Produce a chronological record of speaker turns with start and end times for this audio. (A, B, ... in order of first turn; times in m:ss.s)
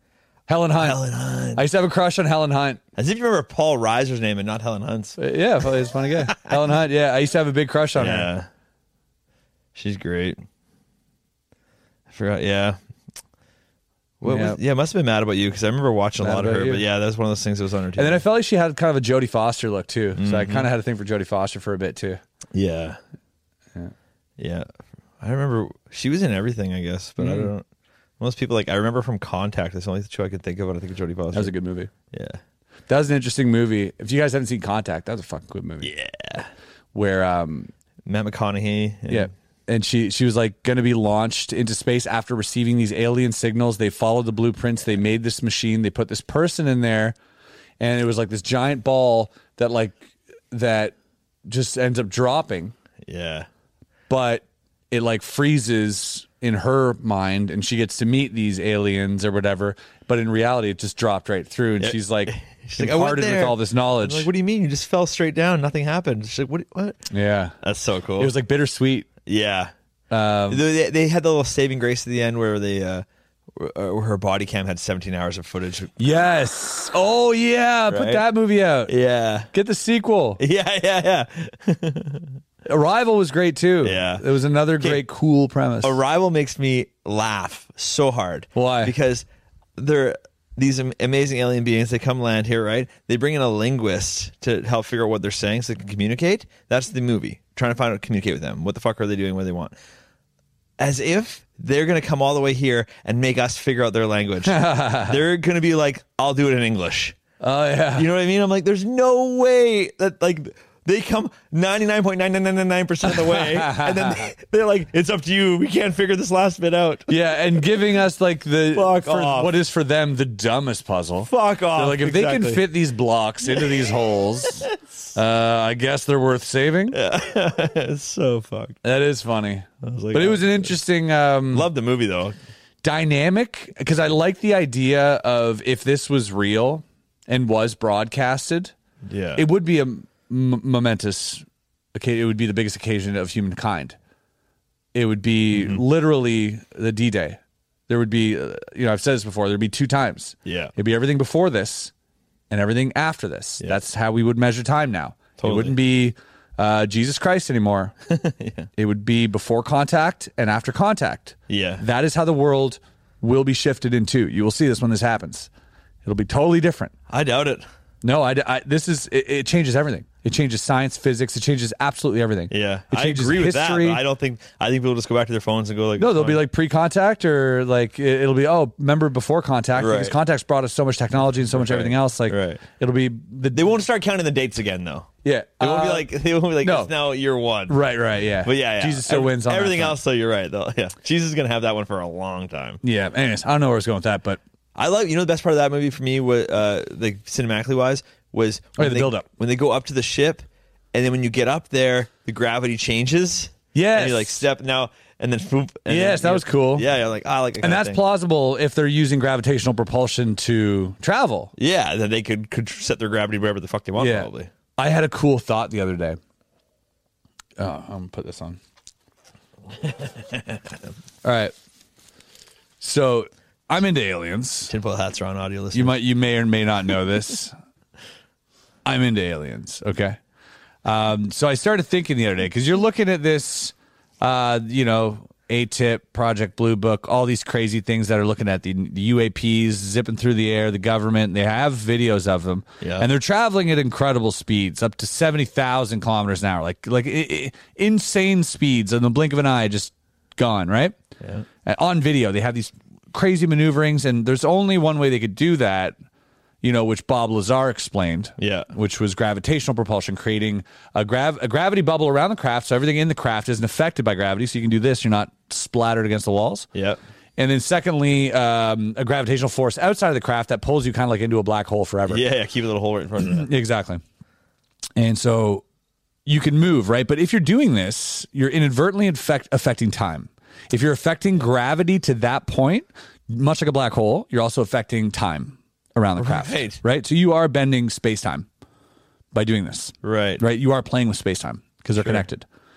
0:00.5-0:01.0 A
0:00.8-0:01.6 B
0:01.6-0:02.8 A
0:03.0-0:05.2 B
0:05.2-0:08.3 A
0:08.0-0:08.5 B
0:09.8-0:10.4 B
0:12.1-0:12.8 B
0:14.2-0:18.2 B
0:14.2-0:14.6 A
0:16.2-0:16.9 A
0:18.0-0:22.2 A
0:20.2-0:20.7 B
0:22.5-0:23.0 B
0:24.4-0:24.7 B
0:25.2-0:27.7 B
0:27.2-0:27.5 A
0:28.2-0:31.5 B
0:31.3-0:31.9 A
0:32.1-0:32.4 B
0:32.9-0:35.9 A
0:35.8-0:36.5 B
0:36.9-0:37.7 A
0:38.1-0:39.3 B
0:39.1-0:47.2 A
0:47.8-0:52.7 A
0:53.0-0:53.5 B
0:54.1-1:04.3 A
1:01.8-1:07.0 B
1:07.1-1:07.6 A
1:07.6-1:08.3 B
1:08.2-1:09.1 A
1:09.3-1:09.7 B
1:10.1-1:10.6 A
1:10.5-1:13.0 B
1:13.6-1:15.9 B
1:16.0-1:18.9 A
1:17.9-1:18.2 B
1:18.9-1:19.5 B
1:19.5-1:20.4 A
1:20.4-1:22.3 B
1:22.7-1:26.0 A
1:23.8-1:24.2 B
1:25.8-1:29.3 B
1:28.6-1:28.9 A
1:29.8-1:39.7 B
1:40.8-1:47.2 B
1:44.4-1:45.2 A
1:47.4-1:48.1 A
1:48.0-1:57.1 B
1:53.0-1:54.3 A
1:57.1-2:07.0 A
1:58.7-1:59.5 B
2:01.2-2:02.7 B
2:03.5-2:03.8 B
2:06.9-2:08.8 B
2:08.8-2:11.7 A
2:09.8-2:10.7 B
2:11.5-2:12.4 B
2:12.8-2:18.7 A
2:19.0-2:19.4 B
2:19.4-2:24.0 A
2:24.9-2:31.9 A
2:25.5-2:25.8 B
2:30.5-2:30.7 B
2:32.5-2:38.0 A
2:35.4-2:35.8 B
2:38.1-2:38.7 B
2:38.8-2:45.5 A
2:41.5-2:41.8 B
2:46.0-2:46.9 A
2:47.1-2:47.6 B
2:48.0-2:54.0 A
2:52.5-2:56.4 B
2:56.0-3:03.7 A
2:59.8-3:00.1 B
3:01.5-3:02.6 B
3:03.5-3:05.1 B
3:05.2-3:06.9 A
3:05.6-3:07.8 B
3:07.7-3:10.0 A
3:08.4-3:12.8 B
3:12.8-3:14.4 A
3:14.8-3:28.0 B
3:18.8-3:19.3 A
3:23.7-3:24.4 A
3:25.9-3:26.9 A
3:27.6-3:31.5 A
3:31.6-3:34.5 B
3:34.0-3:36.2 A
3:37.6-3:38.6 A
3:39.8-3:40.6 B
3:41.2-3:41.5 A
3:42.8-3:44.7 A
3:44.7-3:45.9 B
3:45.7-3:47.6 A
3:48.8-3:50.2 A
3:50.8-4:11.0 A
4:02.8-4:03.1 B
4:11.2-4:11.5 B
4:11.7-4:16.0 A
4:16.6-4:26.7 A
4:18.4-4:18.7 B
4:26.8-4:27.0 B
4:27.4-4:32.2 A
4:32.1-4:33.5 B
4:33.2-4:34.0 A
4:35.0-4:35.6 A
4:36.3-4:48.5 A
4:46.2-4:46.8 B
4:49.3-4:52.4 A
4:50.0-4:50.4 B
4:52.0-4:52.2 B